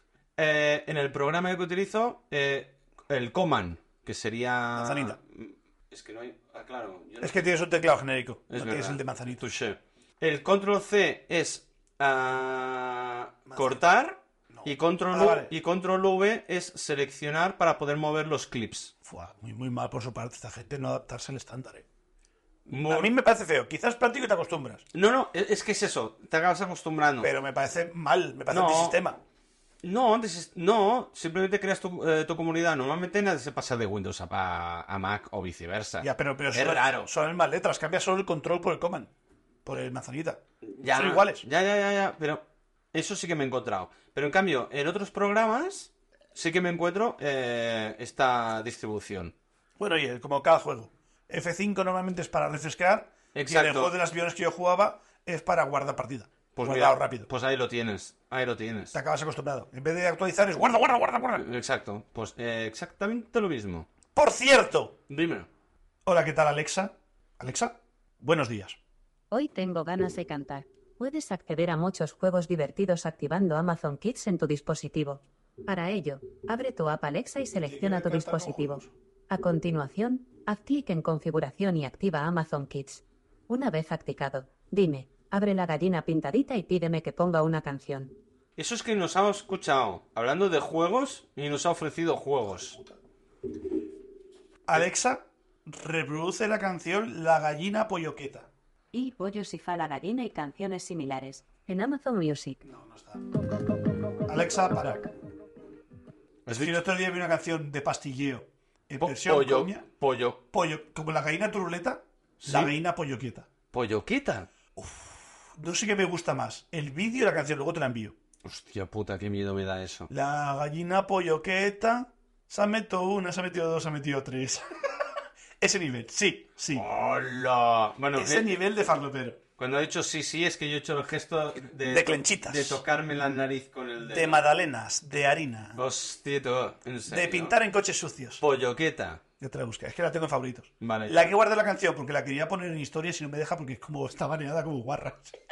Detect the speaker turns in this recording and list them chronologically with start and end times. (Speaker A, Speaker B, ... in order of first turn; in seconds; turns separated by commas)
Speaker A: 0.4-7.5, Speaker B: 4.8-5.2, Speaker B: 7.2-9.4, Speaker A: 8.5-18.9, Speaker B: 13.5-13.8, Speaker B: 14.5-15.5, Speaker B: 19.1-21.9, Speaker B: 22.7-24.9, Speaker A: 22.7-23.1, Speaker A: 24.9-27.3, Speaker B: 27.2-29.2, Speaker A: 28.5-29.0, Speaker A: 29.8-37.1, Speaker B: 36.0-39.1, Speaker B: 39.6-41.4, Speaker A: 40.6-49.4, Speaker B: 49.8-57.3, Speaker A: 53.4-53.9, Speaker A: 56.6-59.0, Speaker B: 58.9-61.5, Speaker A: 61.4-63.9, Speaker B: 64.2-65.0, Speaker A: 65.1-65.5, Speaker B: 66.0-68.8, Speaker C: 69.3-88.1, Speaker B: 77.7-78.9, Speaker A: 88.6-92.8, Speaker B: 94.7-98.5, Speaker C: 98.9-102.6, Speaker B: 102.6-103.2, Speaker B: 104.3-105.1, Speaker A: 106.5-106.8, Speaker B: 106.5-109.8, Speaker A: 109.0-110.4, Speaker B: 110.5-113.5, Speaker A: 112.4-112.7, Speaker A: 113.7-114.5, Speaker B: 114.8-118.2, Speaker A: 118.4-120.1, Speaker B: 120.1-126.8, Speaker A: 126.7-128.6, Speaker B: 128.2-129.4, Speaker A: 129.6-134.4, Speaker B: 131.8-132.8, Speaker B: 134.1-135.8, Speaker A: 135.8-137.5, Speaker B: 137.1-138.4, Speaker A: 138.4-139.2, Speaker B: 139.4-145.4, Speaker A: 140.8-141.3